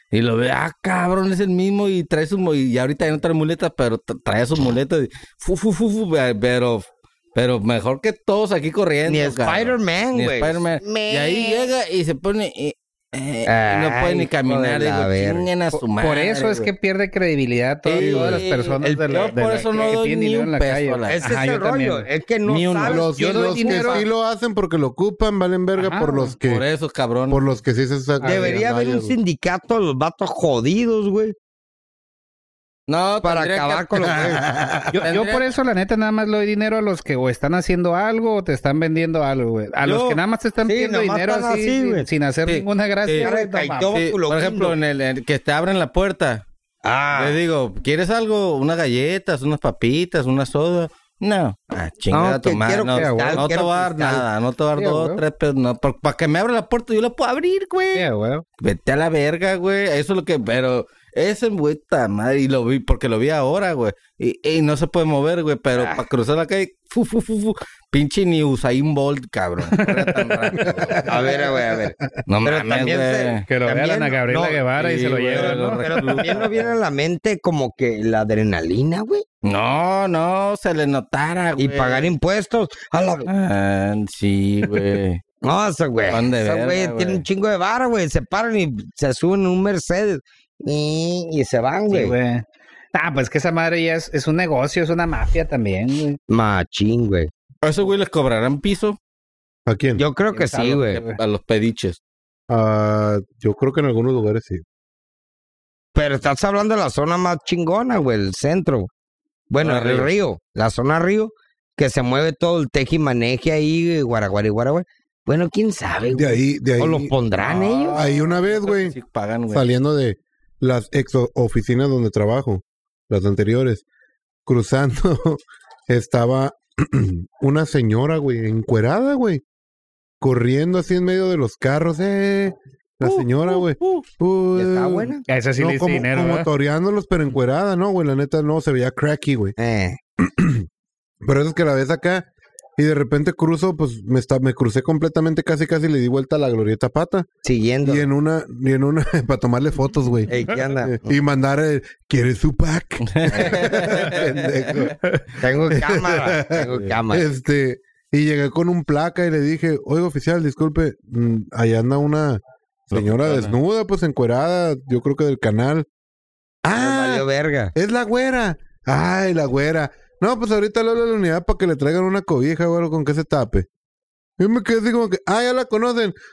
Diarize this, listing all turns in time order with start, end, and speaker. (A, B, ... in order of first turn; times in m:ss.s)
0:00.1-0:16.7 A
0:09.1-0:11.7 B
0:13.5-0:15.5 B
0:15.7-0:22.0 C
0:17.9-0:21.4 A
0:18.0-0:18.5 D
0:18.8-0:20.0 B
0:21.1-0:24.0 B
0:22.5-0:23.1 A
0:22.9-0:26.6 D
0:23.2-0:24.1 C
0:25.8-0:26.4 C
0:26.4-0:27.4 A
0:27.3-0:29.2 D
0:28.2-0:28.6 C
0:28.2-0:31.4 B
0:32.9-0:34.4 A
0:33.2-0:34.5 B
0:34.1-0:35.1 D
0:34.9-0:44.0 C
0:35.0-0:35.5 A
0:39.9-0:42.1 B
0:42.5-0:43.3 A
0:43.2-0:44.8 B
0:43.9-0:46.4 A
0:46.8-0:47.4 B
0:47.2-0:58.1 A
0:52.1-0:54.2 B
0:53.0-0:53.5 C
0:54.8-0:55.2 C
0:58.0-0:58.4 C
0:58.6-1:11.2 A
1:05.8-1:06.0 B
1:09.7-1:11.1 C
1:11.0-1:14.6 B
1:12.3-1:13.4 A
1:13.5-1:15.8 C
1:14.8-1:16.8 A
1:15.3-1:19.2 B
1:19.4-1:22.1 A
1:21.6-1:23.3 B
1:23.3-1:25.2 A
1:25.4-1:32.2 B
1:26.1-1:27.2 A
1:31.9-1:36.2 C
1:36.3-1:37.3 B
1:37.6-1:39.0 A
1:39.7-1:40.0 D
1:40.0-1:41.0 B
1:40.3-1:41.2 C
1:41.0-1:42.0 A
1:42.5-1:44.6 D
1:46.0-1:48.9 B
1:49.5-1:58.0 B
1:49.6-1:50.1 A
1:56.1-1:57.1 D
1:57.4-1:59.7 A
1:57.9-1:59.0 D
1:59.5-2:03.8 D
2:04.5-2:09.4 D
2:10.2-2:19.6 D
2:13.0-2:14.0 A
2:14.6-2:15.2 B
2:15.3-2:16.5 C
2:19.6-2:20.0 B
2:20.2-2:20.7 D
2:21.2-2:27.3 D
2:27.4-2:28.1 B
2:27.8-2:30.3 D
2:30.3-2:31.1 B
2:30.8-2:35.0 D
2:33.1-2:34.8 A
2:35.4-2:37.3 B
2:35.7-2:45.9 D
2:36.6-2:36.9 A
2:42.9-2:43.6 A
2:46.6-2:53.7 D
2:46.8-2:47.7 B
2:54.4-2:56.2 D